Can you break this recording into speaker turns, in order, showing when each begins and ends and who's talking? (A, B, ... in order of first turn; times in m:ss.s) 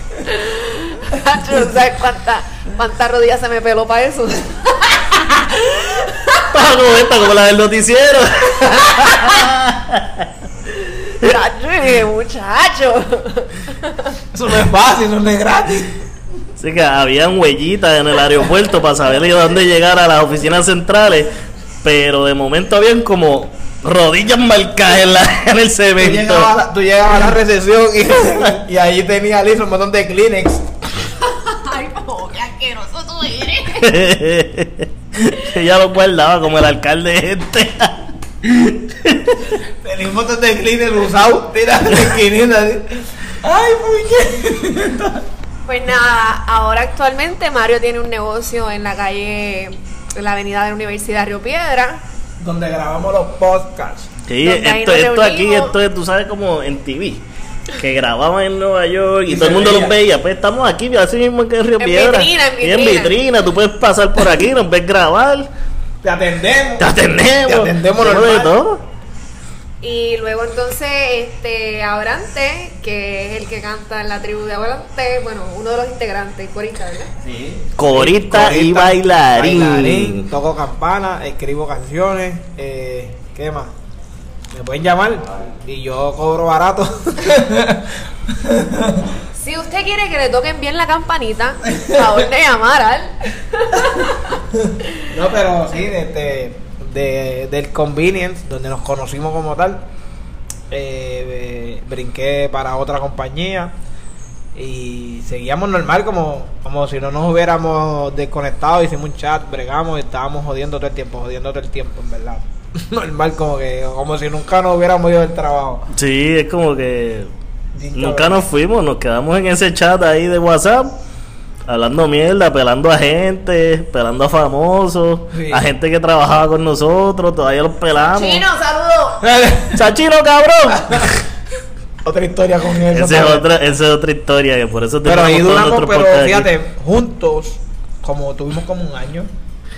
0:00.2-0:06.4 A
0:06.5-0:10.3 B
0:08.6-0:09.5 A
0:10.7-0:14.2 A
0:14.3-0:15.9 C
0:16.6-0:21.3 B
0:21.8-0:26.5 B
0:26.0-0:30.6 C
0:31.2-0:34.0 A
0:33.8-0:38.0 B
0:38.8-0:39.6 B
0:39.8-0:45.2 C
0:45.7-0:52.0 A
0:52.4-0:54.1 C
0:54.3-1:05.5 B
0:54.4-0:55.8 A
0:59.3-1:00.0 C
1:01.8-1:03.2 A
1:06.0-1:08.6 C
1:06.8-1:08.8 B
1:09.8-1:17.1 A
1:17.2-1:23.7 C
1:17.8-1:20.3 B
1:24.5-1:29.1 C
1:29.3-1:34.2 A
1:35.1-1:39.8 C
1:40.7-1:43.7 C
1:44.6-1:55.8 C
1:55.9-1:57.3 B
1:57.7-1:58.4 C
1:57.9-2:00.9 B
2:01.7-2:08.4 B
2:05.3-2:05.6 C
2:08.0-2:09.3 A
2:09.2-2:09.8 C
2:09.7-2:11.2 B
2:12.0-2:13.5 C
2:12.9-2:16.5 B
2:15.0-2:19.3 C